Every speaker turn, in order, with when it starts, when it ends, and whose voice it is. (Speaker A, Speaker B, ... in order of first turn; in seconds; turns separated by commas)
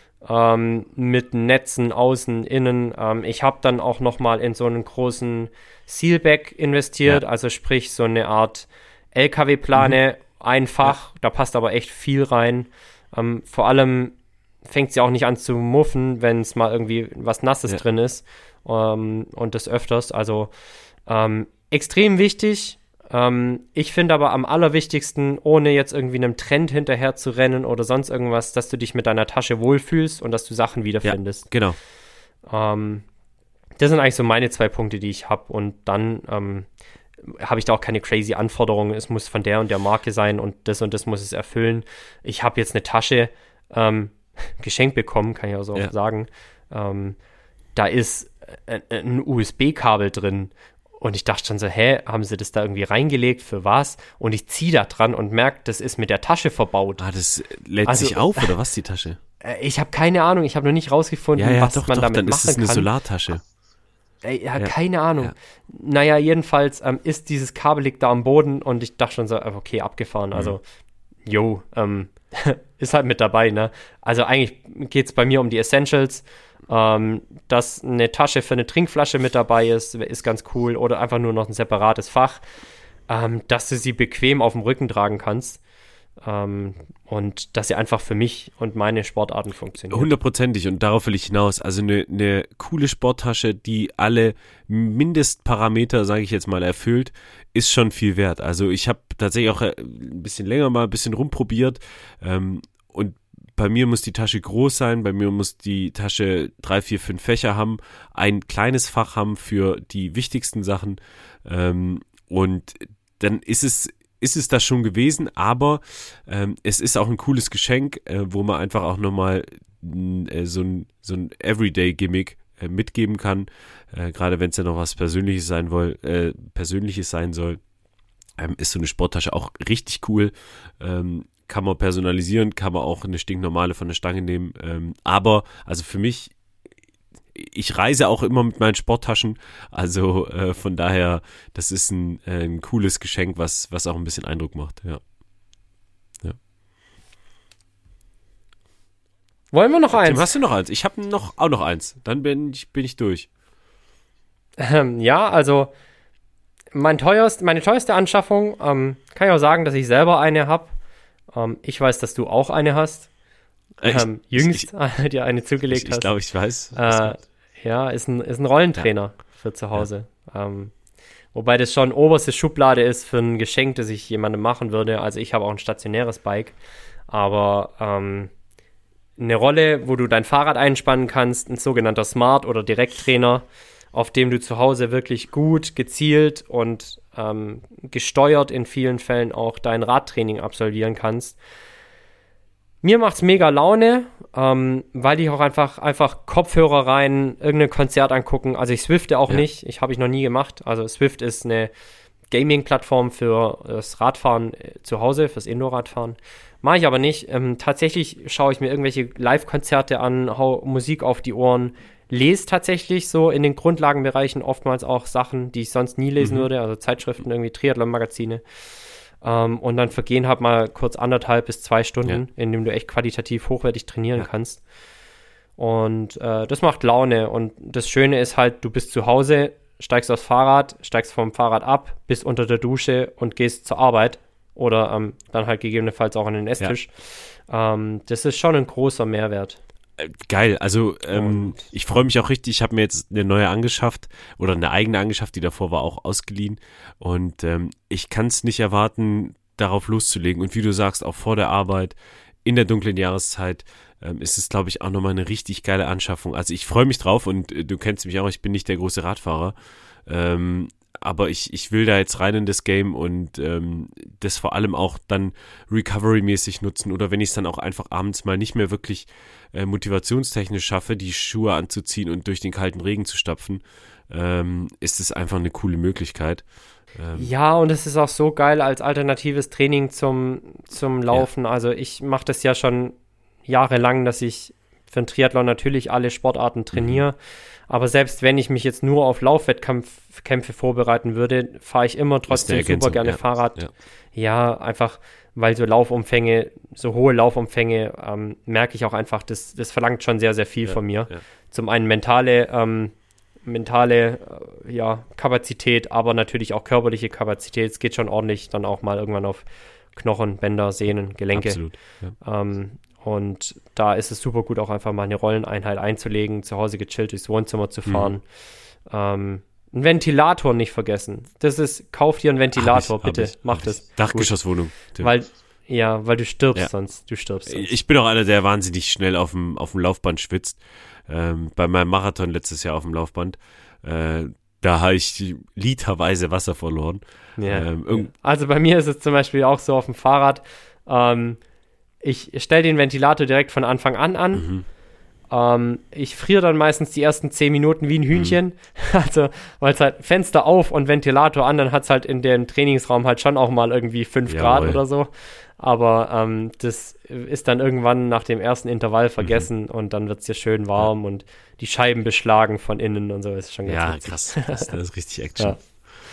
Speaker A: 0.2-20.5, Speaker A: 21.1-31.5, Speaker B: 31.0-31.8, Speaker A: 32.5-33.0, Speaker A: 33.8-36.7, Speaker A: 37.3-47.2, Speaker A: 47.8-57.0, Speaker B: 57.0-59.2, Speaker A: 57.9-58.5, Speaker A: 59.4-62.9, Speaker B: 61.4-63.4, Speaker A: 64.2-70.6, Speaker B: 64.6-65.3, Speaker A: 71.3-82.4, Speaker A: 83.1-85.6, Speaker A: 86.2-90.1, Speaker B: 89.9-127.6, Speaker B: 128.4-136.3, Speaker B: 137.3-145.0, Speaker A: 149.5-150.4, Speaker B: 149.9-153.3, Speaker A: 154.6-155.7, Speaker A: 156.7-160.7, Speaker A: 161.3-163.1, Speaker B: 163.8-164.7, Speaker A: 163.8-166.2, Speaker B: 165.7-167.2, Speaker A: 166.7-170.7, Speaker A: 171.3-176.6, Speaker A: 177.1-178.3, Speaker A: 179.2-191.4, Speaker A: 192.8-201.7, Speaker A: 202.3-218.4, Speaker B: 216.2-216.5, Speaker A: 219.2-224.6, Speaker A: 225.6-239.6, Speaker B: 240.0-259.6, Speaker A: 241.1-241.6, Speaker B: 260.1-276.4, Speaker B: 276.9-277.3, Speaker A: 277.1-282.9, Speaker A: 283.5-287.2, Speaker B: 286.7-287.0, Speaker A: 287.7-293.6, Speaker B: 292.3-293.7, Speaker A: 294.1-302.9, Speaker B: 300.6-301.2, Speaker A: 303.4-309.4, Speaker A: 309.9-318.2, Speaker B: 311.3-312.1, Speaker B: 317.9-318.1, Speaker A: 318.9-327.7, Speaker B: 322.6-325.1, Speaker B: 327.5-338.1, Speaker A: 337.4-341.4, Speaker A: 342.0-344.5, Speaker B: 344.4-344.6, Speaker A: 345.3-364.8, Speaker B: 348.1-348.4, Speaker B: 354.3-354.8, Speaker B: 359.2-359.5, Speaker B: 363.7-365.7